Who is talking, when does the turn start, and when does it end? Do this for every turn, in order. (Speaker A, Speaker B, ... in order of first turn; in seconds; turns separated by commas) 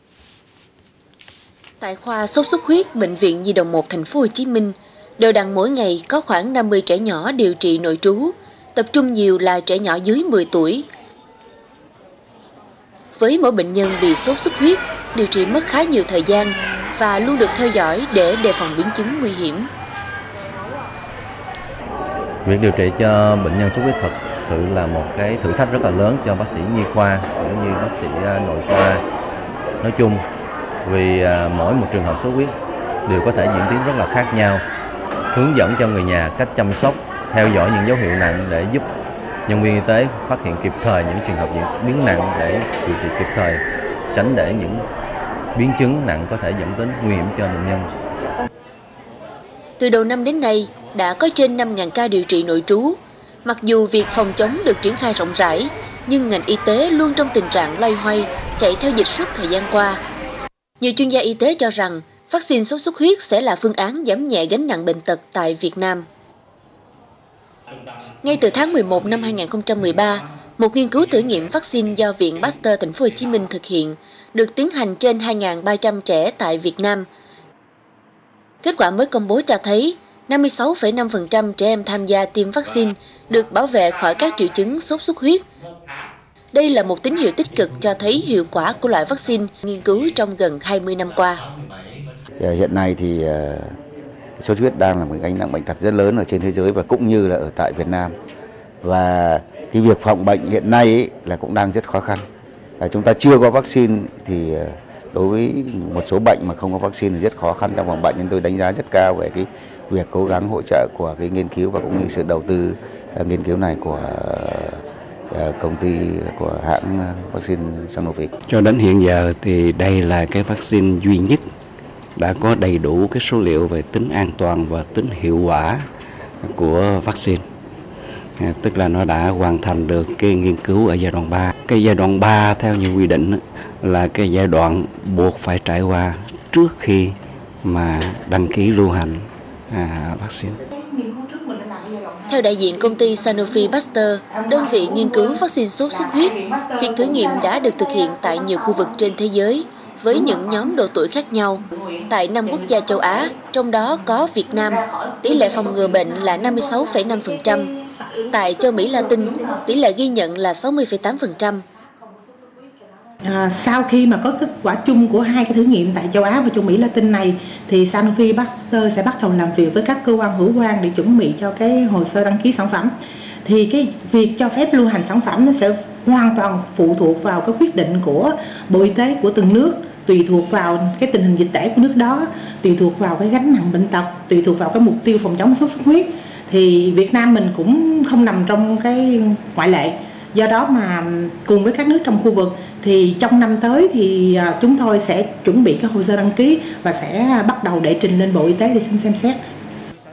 Speaker A: 1.8-10.9, Speaker A: 13.2-19.7, Speaker B: 22.4-29.0, Speaker B: 29.8-30.2, Speaker B: 30.8-32.5, Speaker B: 33.1-34.6, Speaker B: 35.3-38.8, Speaker B: 39.5-43.6, Speaker B: 44.1-44.8, Speaker B: 45.5-47.9, Speaker A: 49.8-60.0, Speaker A: 60.8-66.0, Speaker A: 68.2-77.1, Speaker A: 78.6-85.4, Speaker A: 86.5-91.4, Speaker C: 92.4-93.8, Speaker C: 94.4-98.1, Speaker C: 98.8-102.2, Speaker C: 102.8-118.3, Speaker D: 118.5-121.4, Speaker D: 122.2-125.9, Speaker D: 126.4-127.4, Speaker D: 128.4-140.6, Speaker E: 140.7-143.7, Speaker A: 142.3-157.7, Speaker E: 144.3-145.4, Speaker E: 145.9-147.5, Speaker E: 150.2-150.5, Speaker A: 158.3-161.6, Speaker E: 163.2-172.9, Speaker E: 173.4-199.4